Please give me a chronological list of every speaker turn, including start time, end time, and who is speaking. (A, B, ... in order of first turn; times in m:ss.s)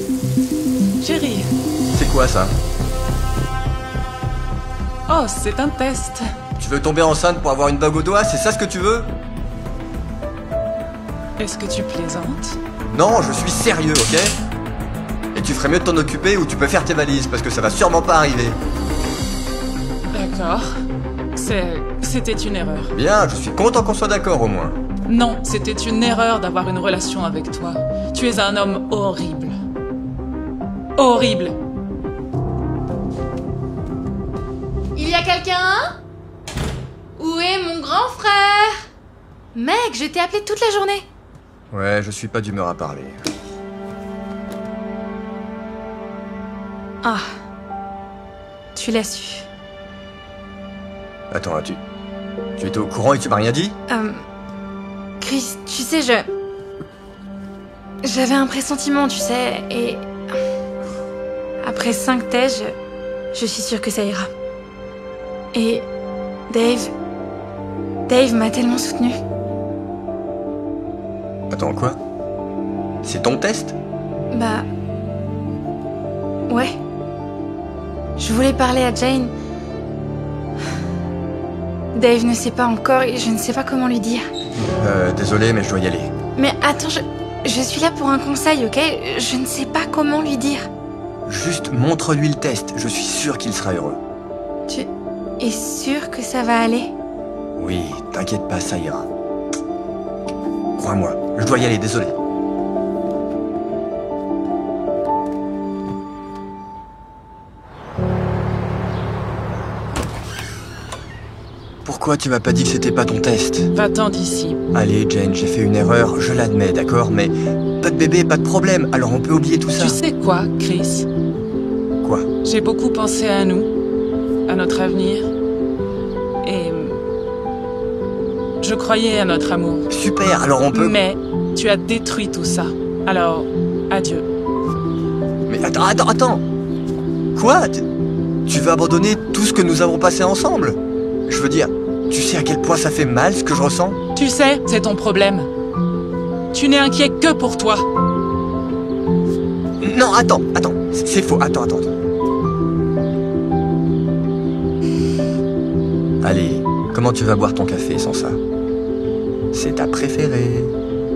0:01.0-0:01.5 A
0:01.9-0:02.6 B
0:05.1-0:06.2 A
0:06.6-0:09.1 B
0:11.4-0:12.6 A
0:12.9-0:14.3 B
0:15.3-0:18.6 B
0:20.1-0:20.7 A
0:21.3-0:22.9 A
0:22.9-0:24.8 B
0:25.0-0:29.6 A
0:31.0-0:31.5 A
0:34.9-0:35.8 C
0:37.2-0:38.8 C
0:39.5-0:41.0 C
0:41.7-0:43.2 B
0:48.8-0:49.4 C
0:51.3-0:51.8 B
0:52.6-0:53.7 B
0:53.9-0:54.2 C
0:55.2-0:56.3 C
0:58.0-1:00.1 C
1:01.6-1:02.8 C
1:03.3-1:04.3 C
1:05.5-1:05.9 C
1:06.5-1:06.9 C
1:08.1-1:09.2 C
1:11.5-1:12.0 B
1:13.0-1:13.8 B
1:14.3-1:14.7 C
1:16.5-1:16.8 C
1:18.2-1:19.3 C
1:21.9-1:24.2 C
1:24.8-1:26.1 B
1:26.4-1:30.7 C
1:31.2-1:34.0 B
1:34.7-1:36.9 C
1:37.6-1:39.1 B
1:40.8-1:42.1 B
1:51.8-1:53.7 B
1:53.7-1:54.6 A
1:54.7-2:00.0 B
1:59.8-2:01.1 A
2:02.0-2:02.3 B
2:02.4-2:03.7 A
2:04.4-2:05.3 A
2:06.4-2:07.0 A
2:08.6-2:09.9 A
2:09.9-2:11.0 B
2:10.7-2:14.2 A
2:15.5-2:16.4 B
2:17.3-2:17.9 B
2:18.4-2:24.0 B
2:24.1-2:25.5 A
2:26.5-2:27.8 A
2:29.8-2:31.9 B
2:36.2-2:38.4 B
2:39.5-2:40.7 B